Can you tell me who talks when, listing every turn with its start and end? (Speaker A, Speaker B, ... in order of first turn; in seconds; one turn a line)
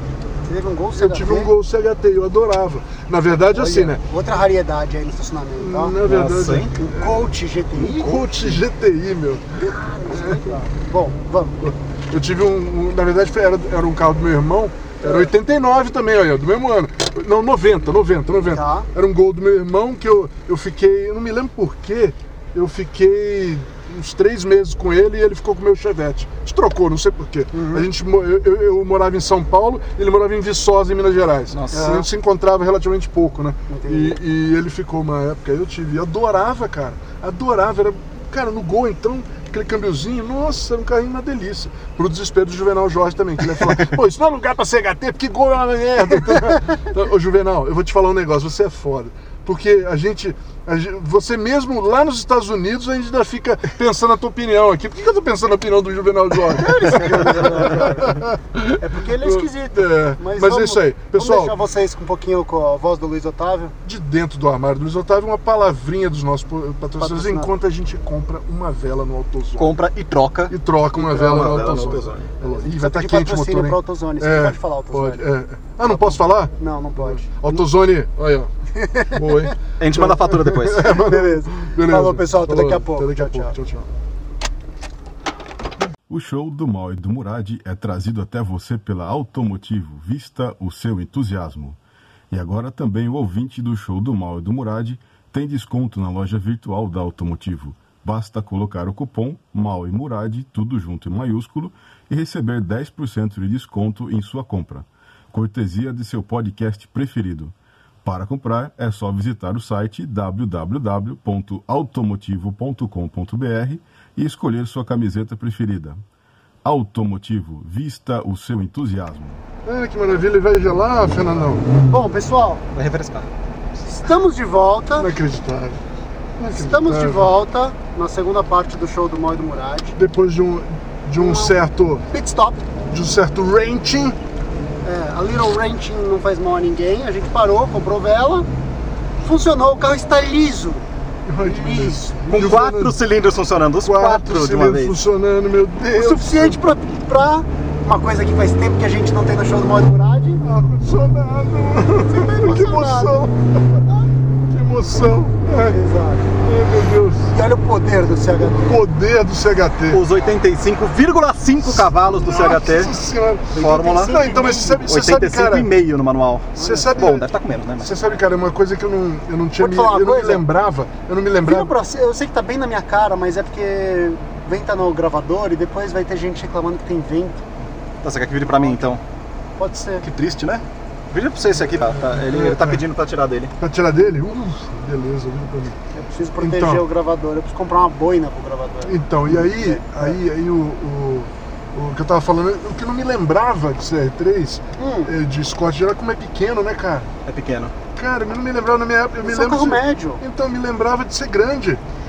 Speaker A: 0.5-1.5
Speaker B: 1.0-4.0
Speaker A: 3.5-6.0
Speaker B: 5.6-7.2
Speaker C: 6.0-6.7
Speaker A: 6.7-8.3
Speaker B: 7.8-10.5
Speaker A: 9.6-11.6
Speaker B: 11.6-61.5
Speaker A: 15.0-15.3
Speaker A: 18.5-18.9
Speaker A: 27.5-27.9
Speaker C: 31.5-31.9
Speaker A: 31.7-32.1
Speaker A: 33.7-34.2
Speaker A: 56.6-58.2
Speaker A: 58.8-63.8
Speaker B: 63.8-69.8
Speaker A: 67.0-67.5
Speaker C: 69.6-72.3
Speaker B: 70.5-78.5
Speaker A: 71.0-71.9
Speaker A: 72.7-75.3
Speaker A: 75.8-77.6
Speaker A: 78.8-79.4
Speaker B: 79.1-83.9
Speaker C: 79.8-81.0
Speaker A: 80.9-83.5
Speaker D: 86.1-91.8
Speaker D: 92.3-116.0
Speaker D: 116.6-119.4
Speaker B: 119.7-121.7
Speaker A: 121.9-122.6
Speaker C: 122.7-123.3
Speaker A: 123.9-125.1
Speaker B: 125.0-125.8
Speaker B: 126.4-127.3
Speaker A: 126.5-130.0
Speaker B: 130.0-132.1
Speaker A: 131.2-131.6
Speaker A: 132.1-132.6
Speaker B: 132.9-134.2
Speaker A: 134.8-138.5
Speaker A: 139.2-140.8
Speaker B: 141.3-142.9
Speaker A: 141.4-142.3
Speaker C: 142.3-145.0
Speaker B: 143.8-146.6
Speaker A: 145.9-150.4
Speaker B: 150.4-153.8
Speaker A: 152.0-153.2
Speaker B: 154.5-155.8
Speaker A: 155.5-156.3
Speaker B: 156.4-157.3
Speaker A: 157.3-158.7
Speaker B: 158.7-160.0
Speaker C: 159.9-162.9
Speaker B: 161.6-165.7
Speaker A: 163.5-164.8
Speaker C: 163.6-167.9
Speaker A: 166.6-167.1
Speaker B: 166.6-167.3
Speaker B: 167.8-171.7
Speaker A: 169.6-170.4
Speaker A: 171.4-177.4
Speaker C: 178.0-179.0
Speaker A: 179.6-180.1
Speaker C: 180.0-183.5
Speaker B: 181.9-182.8
Speaker B: 183.6-185.8
Speaker A: 185.9-190.2
Speaker B: 186.4-186.8
Speaker B: 188.8-197.1
Speaker A: 194.8-195.1
Speaker C: 197.3-197.7
Speaker B: 197.9-201.8
Speaker A: 199.2-200.2